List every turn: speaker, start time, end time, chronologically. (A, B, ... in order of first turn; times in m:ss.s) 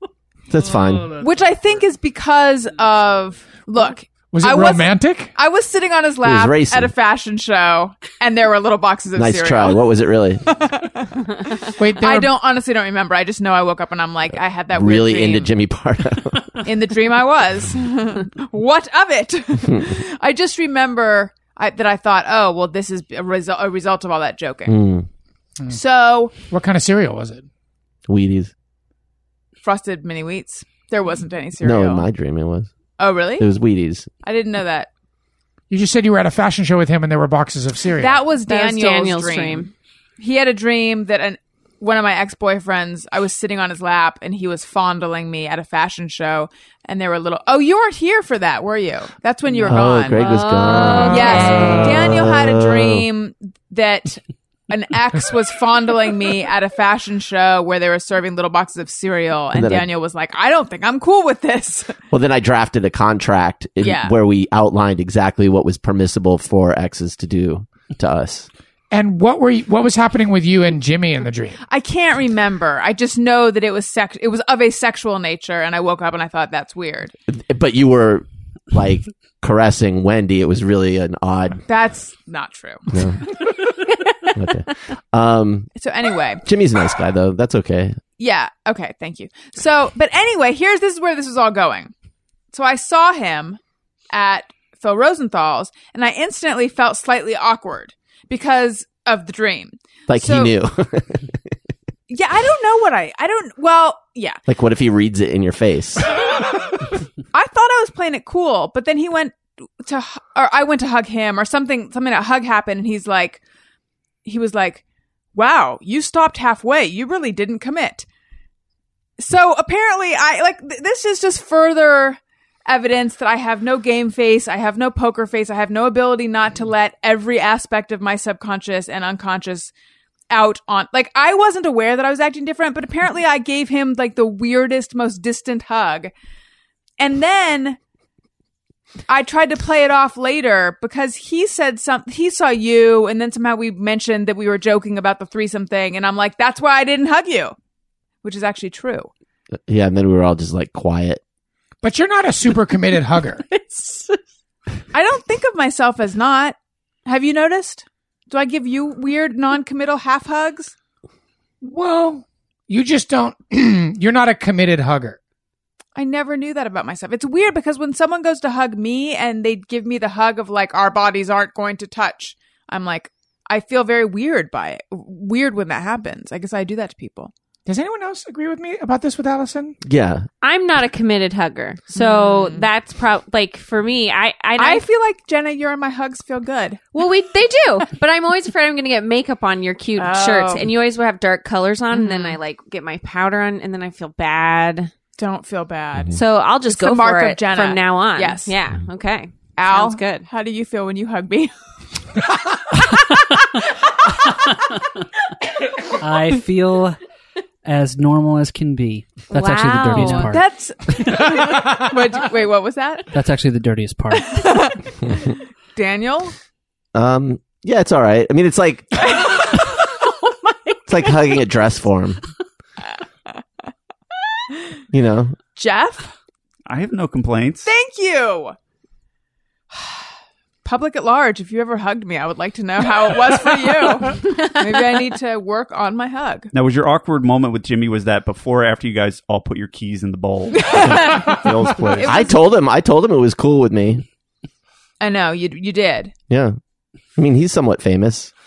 0:00.5-0:01.2 A
0:01.1-0:09.8 B
0:04.3-0:05.3 C
0:06.2-0:06.9 A
0:09.1-0:10.4 A
0:10.4-0:15.5 B
0:11.8-0:12.3 C
0:14.7-0:16.6 A
0:16.6-0:24.8 B
0:19.6-0:19.9 A
0:24.6-0:25.1 A
0:25.7-0:26.3 B
0:26.4-0:27.4 C
0:28.1-0:28.5 A
0:29.6-0:32.1 B
0:31.6-0:32.7 A
0:33.0-0:33.5 B
0:33.4-0:34.1 A
0:34.2-0:34.9 B
0:35.7-0:38.2 C
0:38.0-0:50.4 B
0:38.5-0:39.7 D
0:49.6-0:53.0 A
0:50.1-0:52.1 D
0:51.0-1:02.0 B
0:59.5-0:59.9 A
1:02.1-1:08.5 A
1:03.8-1:04.1 B
1:08.9-1:11.6 C
1:11.7-1:17.1 B
1:17.3-1:21.6 A
1:21.7-1:22.9 B
1:22.9-1:23.3 A
1:24.3-1:25.7 A
1:25.7-1:26.4 B
1:26.4-1:28.0 A
1:28.2-1:31.9 B
1:32.5-1:33.6 B
1:34.1-1:40.5 B
1:40.1-1:41.4 A
1:42.1-1:44.4 B
1:44.5-1:46.1 A
1:47.3-1:53.4 B
1:54.2-1:54.8 B
1:55.3-1:58.1 B
1:59.2-2:09.7 B
2:10.3-2:16.1 B
2:17.0-2:17.8 B
2:19.1-2:27.6 B
2:28.2-2:29.1 B
2:29.7-2:31.2 A
2:31.8-2:33.4 C
2:33.5-2:34.2 D
2:34.9-2:40.7 B
2:41.6-2:45.2 C
2:45.9-2:57.3 B
2:57.6-2:59.8 C
2:59.8-3:00.2 A
3:00.4-3:04.8 D
3:01.9-3:02.7 B
3:04.6-3:06.8 B
3:06.9-3:14.9 D
3:10.0-3:10.7 B
3:11.9-3:12.4 B
3:15.2-3:18.6 B
3:16.1-3:20.2 D
3:19.6-3:21.5 B
3:26.0-3:27.0 E
3:27.6-3:31.3 E
3:29.3-3:30.3 D
3:29.9-3:33.1 B
3:33.1-3:34.4 E
3:34.2-3:36.3 B
3:36.9-3:39.2 A
3:39.2-3:39.5 B
3:40.9-3:42.2 A
3:44.9-3:45.4 A
3:45.5-3:46.1 B
3:46.7-3:47.7 F
3:47.6-3:48.6 B
3:49.7-3:50.0 B
3:50.6-3:56.5 B
3:56.5-4:01.0 F
4:00.6-4:01.4 B
4:00.8-4:04.0 A
4:02.0-4:02.4 B
4:05.0-4:06.1 B
4:06.3-4:06.5 A
4:07.1-4:08.3 A